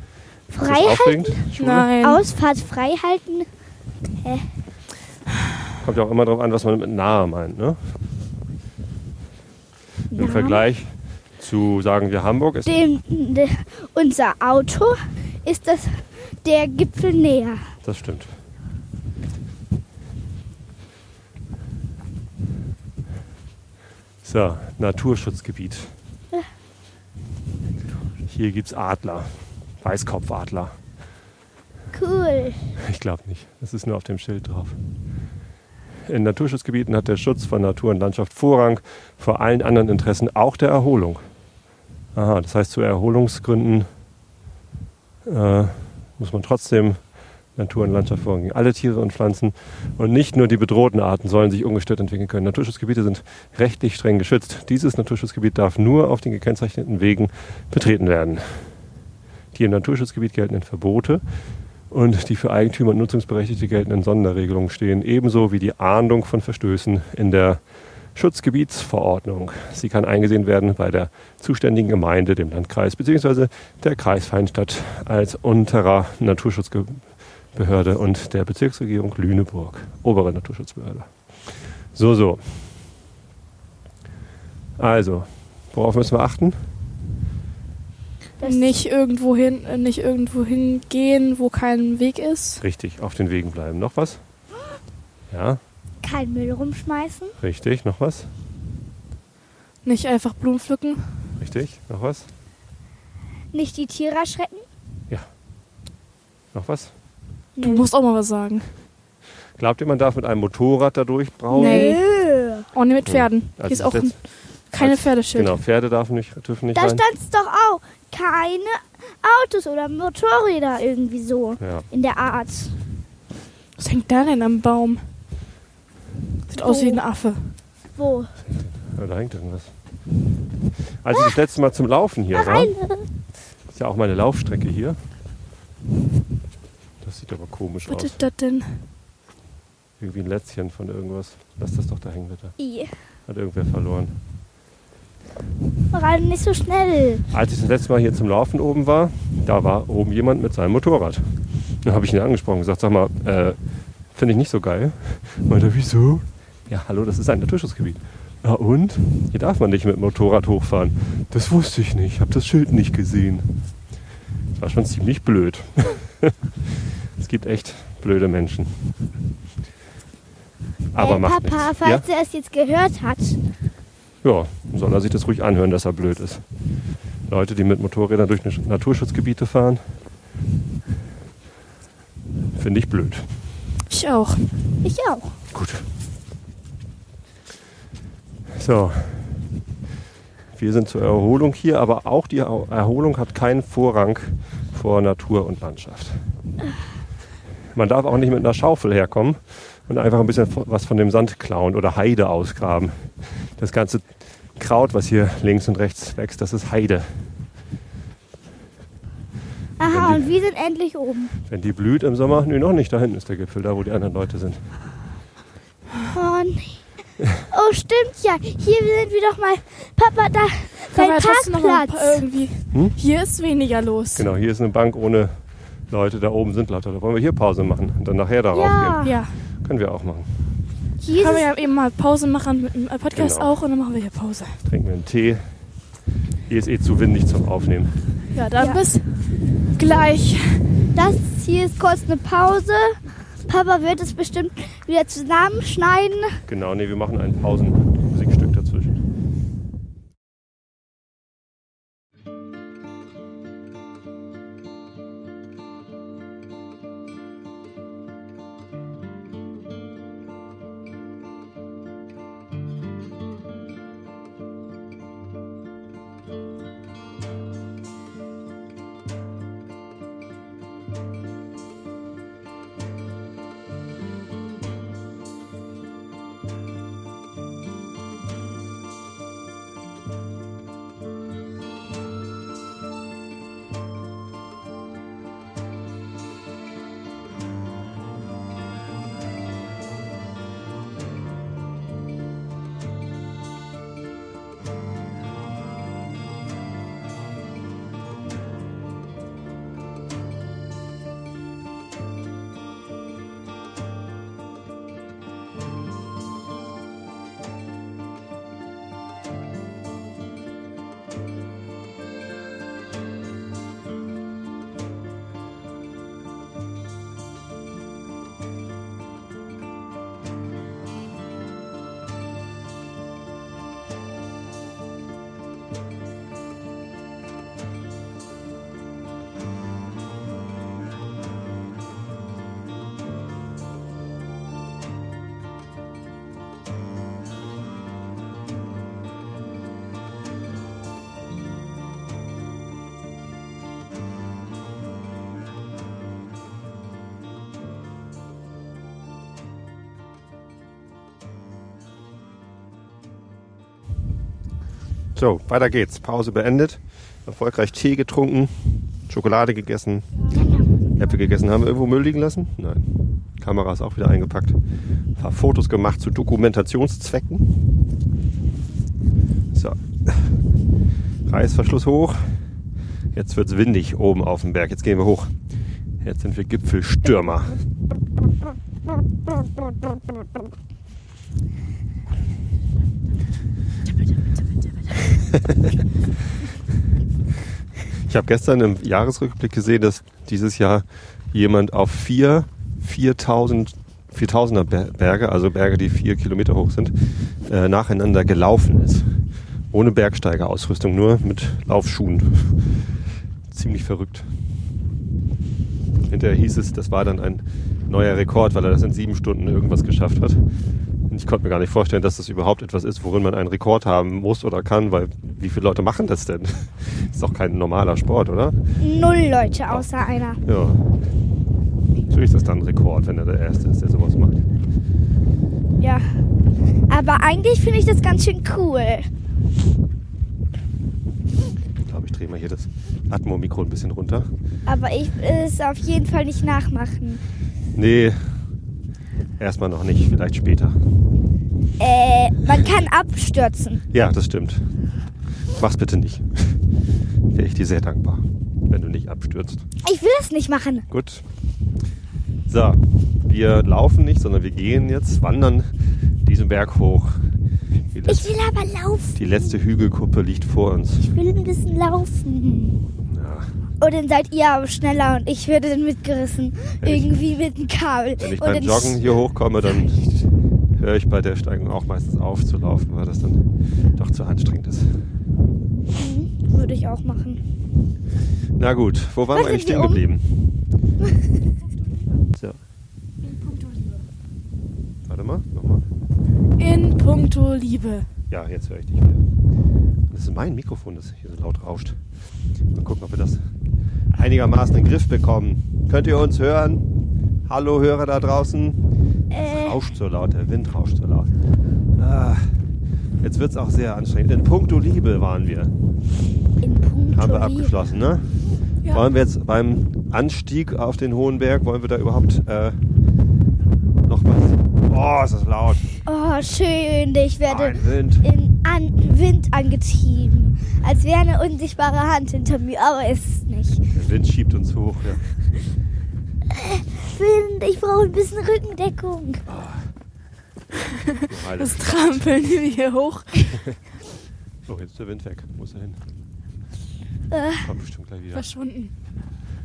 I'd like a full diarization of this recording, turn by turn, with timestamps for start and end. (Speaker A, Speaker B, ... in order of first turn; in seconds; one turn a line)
Speaker A: 0.5-3.5
Speaker B: 0.6-1.9
Speaker C: 1.6-2.2
Speaker B: 5.8-7.9
Speaker A: 10.1-10.6
Speaker B: 10.2-12.8
Speaker A: 12.6-17.6
Speaker B: 17.8-18.3
Speaker B: 24.2-25.9
Speaker B: 28.2-30.8
Speaker A: 31.9-32.7
Speaker B: 32.8-34.8
Speaker B: 36.0-41.2
Speaker B: 42.1-43.9
Speaker B: 45.2-58.7
Speaker B: 59.5-61.2
Speaker B: 61.9-67.6
Speaker B: 68.1-82.4
Speaker B: 84.8-86.6
Speaker A: 88.4-88.8
Speaker C: 88.4-92.6
Speaker B: 92.6-94.2
Speaker B: 95.3-95.6
Speaker A: 96.0-97.3
Speaker B: 97.4-98.3
Speaker C: 99.8-101.3
Speaker B: 101.4-102.3
Speaker A: 103.5-104.7
Speaker B: 106.5-106.9
Speaker A: 107.5-107.8
Speaker C: 107.6-108.7
Speaker B: 109.6-112.0
Speaker A: 111.5-112.7
Speaker C: 111.5-112.0
Speaker C: 112.7-115.5
Speaker B: 113.0-117.0
Speaker A: 116.7-122.7
Speaker B: 121.6-121.8
Speaker C: 123.8-125.1
Speaker C: 126.5-127.5
Speaker A: 126.6-127.0
Speaker A: 128.0-128.3
Speaker B: 128.4-129.7
Speaker B: 131.0-132.7
Speaker A: 132.3-133.1
Speaker B: 133.7-135.0
Speaker B: 137.0-138.2
Speaker C: 137.9-138.8
Speaker B: 140.0-142.5
Speaker A: 142.6-142.9
Speaker B: 143.3-144.1
Speaker A: 145.9-147.2
Speaker B: 147.3-153.6
Speaker B: 154.1-163.5
Speaker B: 164.6-168.9
Speaker B: 170.9-172.0
Speaker A: 170.9-173.4
Speaker B: 174.2-176.4
Speaker B: 177.3-179.8
Speaker B: 182.5-183.3
Speaker C: 183.9-184.5
Speaker A: 184.8-185.3
Speaker B: 185.5-185.8
Speaker B: 188.5-189.5
Speaker B: 190.5-196.2
Speaker B: 197.7-207.3
Speaker A: 209.8-211.3
Speaker B: 209.8-210.3
Speaker B: 211.5-214.7
Speaker A: 216.1-216.8
Speaker A: 217.4-222.2
Speaker C: 220.9-224.3
Speaker B: 224.2-230.4
Speaker A: 228.5-229.2
Speaker C: 229.0-229.4
Speaker A: 231.0-231.5
Speaker C: 231.1-234.6
Speaker B: 233.1-233.6
Speaker B: 234.6-235.5
Speaker B: 236.5-237.9
Speaker C: 238.3-240.8
Speaker A: 238.6-238.9
Speaker A: 240.9-246.4
Speaker B: 246.5-249.0
Speaker B: 355.1-360.1
Speaker A: 360.3-360.7
Speaker B: 360.9-364.6
Speaker B: 365.1-367.6
Speaker B: 369.5-370.4
Speaker B: 371.3-372.4
Speaker B: 373.1-375.3
Speaker B: 376.0-377.6
Speaker B: 385.3-385.7
Speaker B: 388.1-399.1
Speaker B: 399.7-402.8
Speaker B: 403.5-404.3
Speaker B: 406.1-410.4
Speaker B: 411.1-418.6
Speaker A: 418.8-420.4
Speaker B: 420.4-420.8
Speaker B: 422.1-424.4
Speaker A: 425.8-426.1
Speaker A: 426.9-429.1
Speaker B: 431.9-434.3
Speaker A: 434.6-437.2
Speaker B: 437.7-438.3
Speaker B: 439.4-440.8
Speaker A: 441.8-443.8
Speaker B: 443.9-444.6
Speaker B: 445.5-446.6
Speaker B: 447.3-449.6
Speaker A: 449.8-450.9
Speaker B: 450.9-451.2
Speaker B: 452.5-455.7
Speaker B: 456.2-457.2
Speaker B: 457.9-458.3
Speaker A: 458.1-459.5
Speaker B: 459.1-461.1
Speaker A: 461.0-462.8
Speaker B: 463.1-463.5
Speaker A: 463.8-469.0
Speaker B: 466.8-467.1
Speaker B: 468.2-473.4
Speaker B: 473.9-475.0
Speaker A: 475.9-477.4
Speaker B: 478.6-480.4
Speaker A: 479.3-480.0
Speaker B: 485.0-485.9
Speaker C: 486.6-488.1
Speaker B: 488.3-489.2
Speaker B: 490.1-492.0
Speaker B: 492.7-493.4
Speaker B: 494.1-496.9
Speaker B: 497.5-498.8
Speaker A: 499.3-499.8
Speaker B: 499.4-501.3
Speaker B: 501.9-502.5
Speaker B: 503.2-505.7
Speaker A: 506.6-507.7
Speaker B: 507.1-508.3
Speaker B: 508.9-512.8
Speaker B: 514.0-516.0
Speaker A: 516.0-523.8
Speaker B: 517.5-518.2
Speaker B: 523.9-525.3
Speaker A: 526.5-529.4
Speaker B: 529.5-529.9
Speaker C: 531.2-533.6
Speaker B: 531.2-532.5
Speaker B: 534.7-536.0
Speaker A: 537.3-537.7
Speaker B: 537.6-538.5
Speaker C: 538.3-538.9